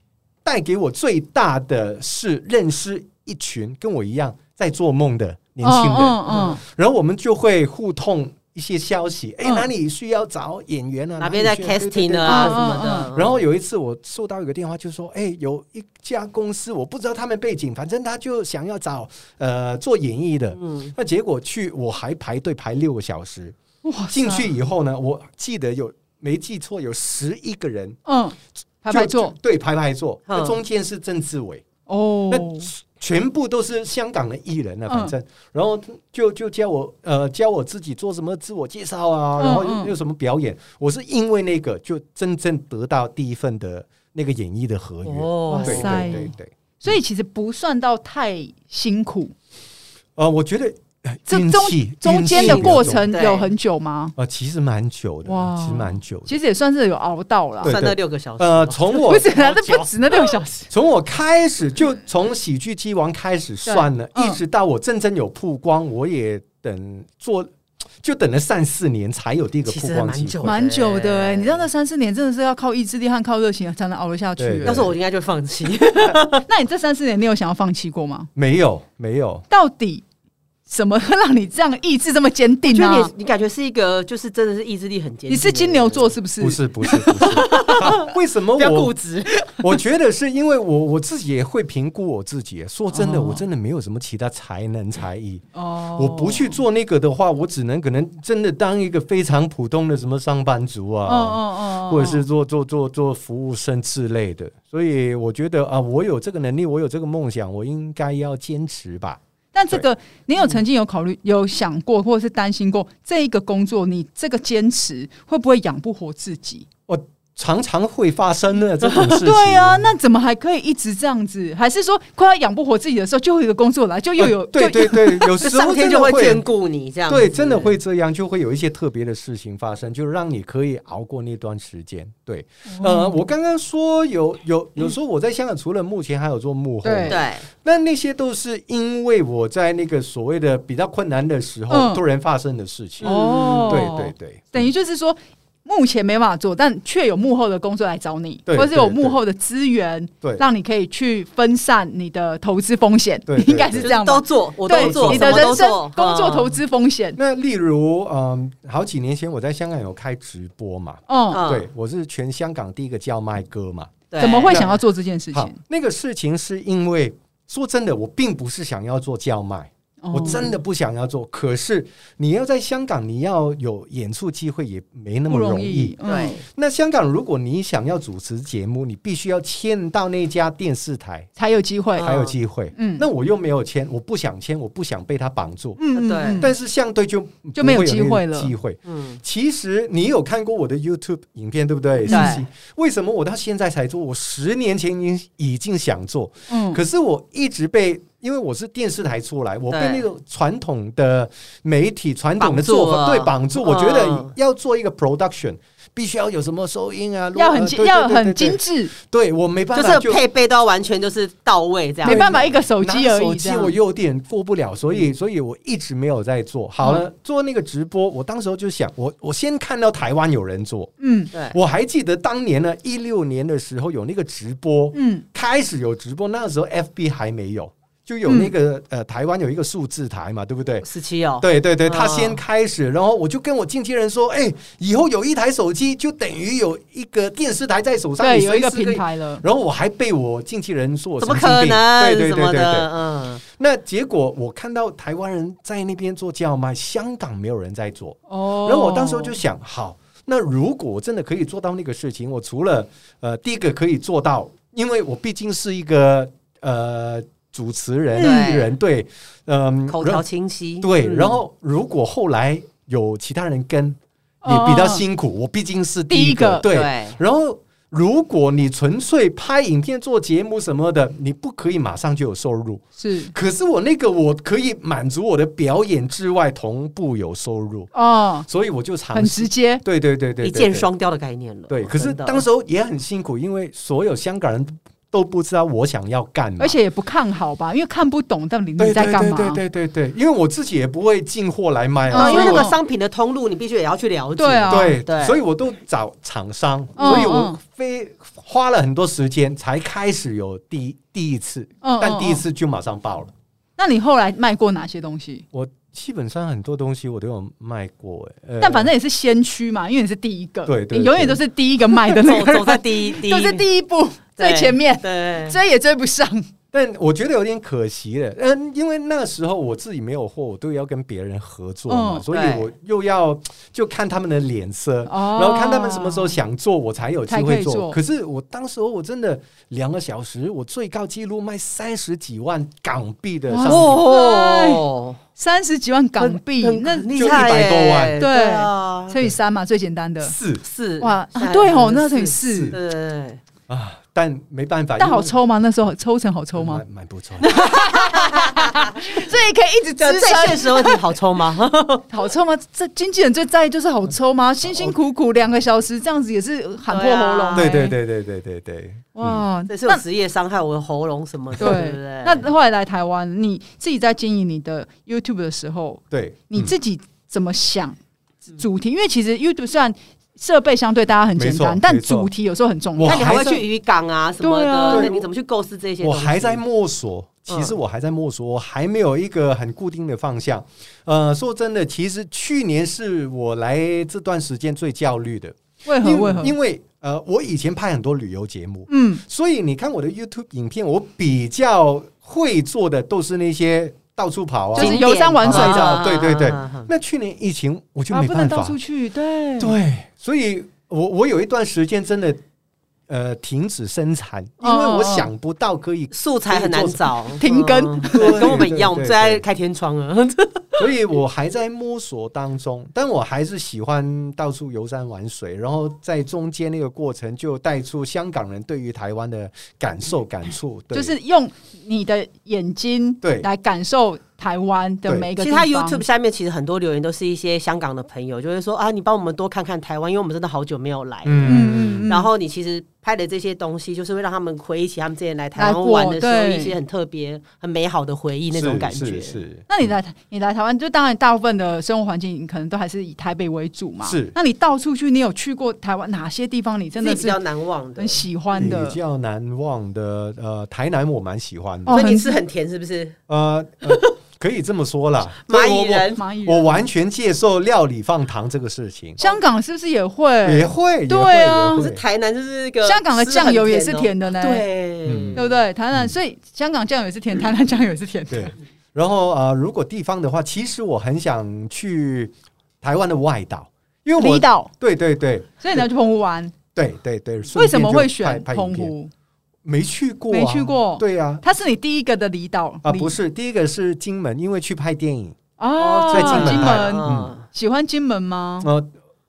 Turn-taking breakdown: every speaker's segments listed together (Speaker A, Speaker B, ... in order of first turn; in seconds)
Speaker A: 0.4-23.6, 24.1-28.0, 28.9-31.6, 32.3-46.9, 50.1-53.1, 54.1-56.3, 57.6-59.7, 60.7-70.5, 74.4-74.9, 78.3-79.4, 86.4-88.9, 89.6-95.4, 96.0-109.8, 116.9-119.9, 124.2-126.4, 127.1-144.7, 148.5-149.2, 153.3-153.9, 154.7-155.6, 157.2-181.3, 182.0-185.8, 186.4-210.2, 212.0-220.9, 221.5-230.8, 231.4-242.9, 243.4-260.2, 260.8-277.9, 278.5-280.9, 281.7-286.8, 288.8-292.7, 294.7-303.3, 305.5-308.9, 310.6-311.4, 316.7-334.0, 337.1-338.2, 340.2-340.6, 342.4-342.8, 343.7-345.4, 346.5-347.5, 354.6-354.9, 357.5-359.4, 366.1-366.7, 371.4-372.3, 373.0-373.6, 374.9-375.3, 376.0-398.8, 399.6-402.4, 403.1-407.0, 408.0-409.4, 410.8-421.1, 423.2-423.5, 431.2-432.1, 438.5-439.7, 444.0-444.3, 448.6-452.0, 453.3-459.2, 460.4-462.0, 465.0-465.4, 468.3-475.8, 476.7-478.9, 479.6-481.4, 482.8-485.4, 486.1-487.3, 488.6-488.9
Speaker B: 5.6-6.6, 12.2-13.1, 23.8-24.5, 28.1-29.3, 31.9-32.7, 34.9-35.1, 39.4-39.9, 45.5-49.3, 51.3-54.1, 55.2-57.7, 59.0-60.7, 63.6-64.4, 70.4-74.9, 76.5-78.3, 79.5-80.0, 80.7-83.1, 85.3-87.8, 92.9-93.4, 95.5-96.6, 101.0-102.2, 109.5-116.7, 119.1-125.3, 132.7-133.2, 136.8-137.2, 141.7-142.0, 143.0-157.2, 161.1-161.4, 164.2-165.6, 170.0-170.5, 175.3-176.4, 181.4-182.1, 182.8-183.1, 185.8-186.5, 187.6-188.5, 192.1-192.4, 196.5-196.8, 207.3-208.9, 212.0-213.7, 216.8-217.1, 221.0-221.3, 224.9-225.2, 228.2-228.5, 238.2-239.4, 248.3-249.4, 258.1-258.5, 264.4-265.0, 266.1-266.6, 273.0-273.3, 277.9-278.5, 279.1-279.8, 286.6-289.6, 292.1-292.7, 294.4-295.0, 297.0-297.6, 301.8-302.4, 303.8-305.4, 308.6-316.5, 321.9-322.2, 325.1-326.4, 327.3-328.0, 333.5-334.8, 335.4-337.4, 338.2-340.4, 341.0-342.7, 345.0-346.8, 347.4-351.0, 352.1-358.0, 359.1-360.0, 361.6-368.0, 368.6-373.5, 374.4-375.1, 385.9-386.5, 388.9-389.2, 394.8-396.0, 398.1-399.8, 404.6-405.3, 407.4-408.6, 420.9-426.0, 431.4-432.3, 435.6-436.7, 439.7-447.4, 448.0-449.0, 451.9-452.4, 456.1-456.8, 459.2-461.9, 462.8-464.6, 465.3-468.5, 474.2-474.7, 475.6-476.5, 477.5-479.1, 480.3-483.1, 485.6-488.7
Speaker C: 11.2-13.4, 20.6-20.9, 30.3-30.6, 45.0-46.2, 52.3-53.5, 57.6-59.8, 69.7-71.6, 74.6-76.5, 82.7-86.2, 87.2-89.3, 125.4-127.8, 137.1-137.4, 143.0-143.9, 153.8-156.6, 161.3-161.7, 164.1-164.7, 176.0-176.4, 182.0-182.3, 185.9-186.5, 188.8-189.2, 192.1-192.4, 199.7-200.1, 202.4-204.3, 209.7-212.3, 230.8-232.4, 241.2-243.4, 258.1-258.7, 259.9-261.4, 266.6-267.2, 280.4-282.4, 292.1-295.4, 297.0-297.3, 312.1-313.6, 314.4-315.6, 322.3-322.7, 333.6-335.2, 336.2-339.1, 340.6-343.4, 347.4-349.0, 350.0-352.1, 356.9-357.8, 359.7-362.5, 373.0-376.6, 377.5-377.8, 394.8-396.9, 406.1-410.9, 425.4-439.4, 447.0-448.2, 451.9-453.2, 453.8-454.1, 455.5-456.2, 461.8-465.6, 485.8-487.5